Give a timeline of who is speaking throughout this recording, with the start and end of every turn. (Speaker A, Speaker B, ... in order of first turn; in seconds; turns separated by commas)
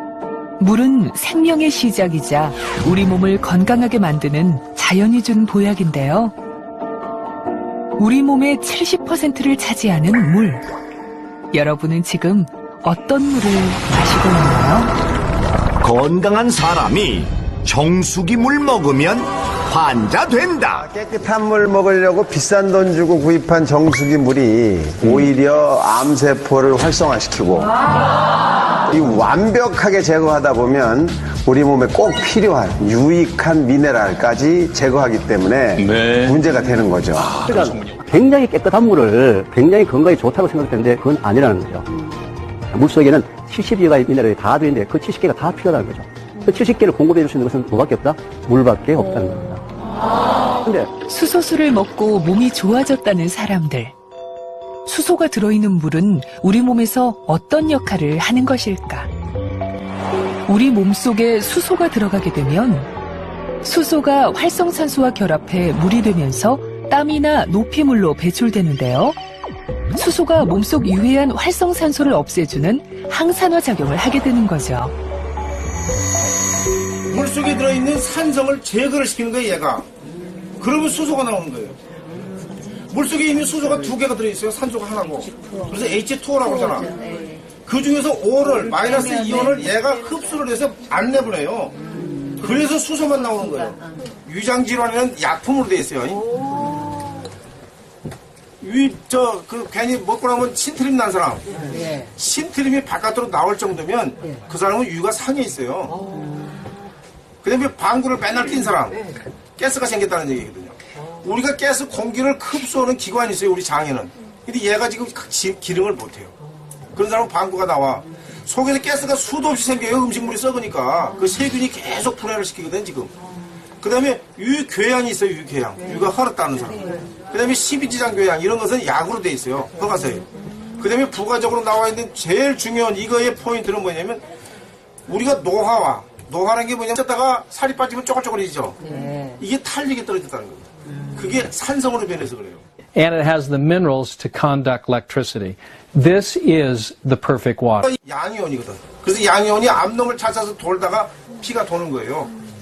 Speaker A: 0.6-6.3, Speaker A: 8.0-10.6, Speaker A: 11.5-14.9, Speaker B: 15.8-20.9, Speaker C: 20.7-27.8, Speaker C: 28.9-37.4, Speaker D: 37.2-42.1, Speaker D: 42.7-49.8, Speaker D: 50.6-50.9, Speaker A: 51.0-53.9, Speaker A: 54.9-59.1, Speaker A: 60.5-62.9, Speaker A: 63.6-69.2, Speaker A: 69.9-74.9, Speaker E: 77.1-79.9, Speaker E: 80.6-81.8, Speaker E: 82.9-86.9, Speaker E: 87.7-91.8, Speaker E: 92.4-96.2, Speaker E: 98.6-106.0, Speaker E: 107.4-109.0, Speaker E: 109.6-116.3, Speaker E: 116.9-123.1, Speaker E: 123.8-130.2, Speaker E: 130.8-134.2, Speaker E: 135.1-142.6, Speaker F: 142.9-147.9, Speaker E: 147.8-152.3